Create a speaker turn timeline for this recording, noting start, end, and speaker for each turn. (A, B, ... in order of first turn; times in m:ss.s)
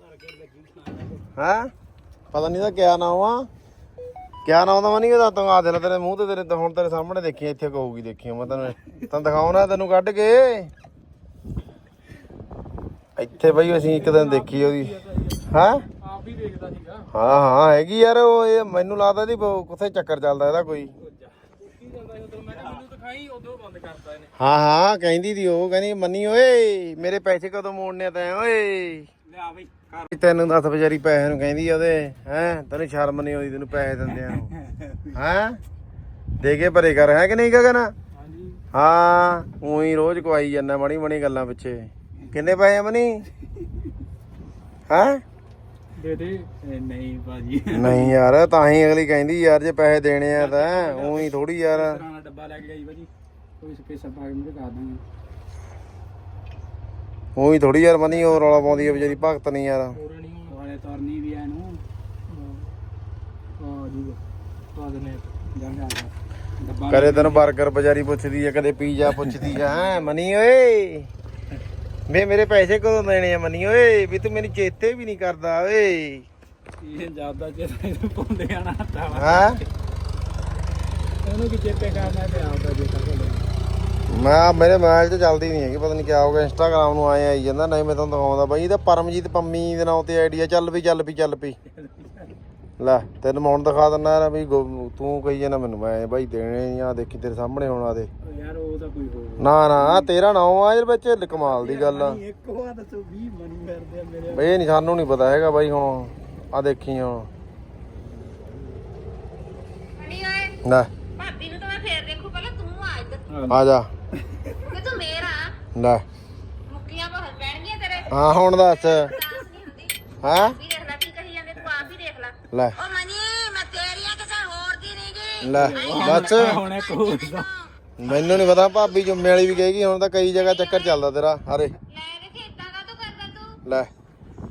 0:00.2-0:01.1 A
0:01.4-0:01.7 B
0:02.3-0:03.5 B
0:04.4-0:10.7 B
0:13.2-0:14.9 B
0:13.4-0:15.5 A
0:15.5-0:15.8 B
0:16.0-0:17.2 A
0:17.1-0:20.9 B
0:21.0-0:24.3 A
0:24.4-0:29.1 B
0:29.3-0:30.1 A
0:30.1-0:34.5 B
0:34.1-0:35.1 A
0:35.1-0:35.6 B
0:36.4-0:37.9 B
0:38.2-0:38.6 A
0:38.7-0:43.3 B
0:44.9-0:45.2 B
0:46.0-0:48.1 A
0:47.7-0:52.0 B
0:50.3-0:53.1 A
0:53.6-0:55.0 A
0:57.4-1:00.0 B
0:58.2-0:59.2 A
1:00.0-1:02.6 A
1:03.6-1:04.2 A
1:04.7-1:07.5 A
1:06.9-1:11.1 B
1:09.1-1:09.9 A
1:12.1-1:16.2 B
1:16.8-1:19.7 A
1:19.1-1:19.6 B
1:21.2-1:23.4 A
1:24.1-1:31.6 B
1:31.7-1:32.3 A
1:32.8-1:38.1 B
1:38.2-1:40.1 A
1:39.4-1:42.2 B
1:41.3-1:44.5 A
1:44.3-1:47.3 B
1:50.0-1:50.6 C
1:50.6-1:50.9 B
1:51.2-1:53.2 C
1:53.3-1:53.6 A
1:53.5-1:53.9 B
1:54.3-1:54.6 A
1:54.6-1:55.5 C
1:55.7-1:56.0 B
1:56.7-2:07.5 C
1:58.1-1:59.1 B
2:00.2-2:00.6 B
2:05.4-2:06.6 B
2:05.5-2:07.5 A
2:08.0-2:11.7 B
2:10.4-2:10.9 C
2:11.9-2:13.6 C
2:13.6-2:13.9 B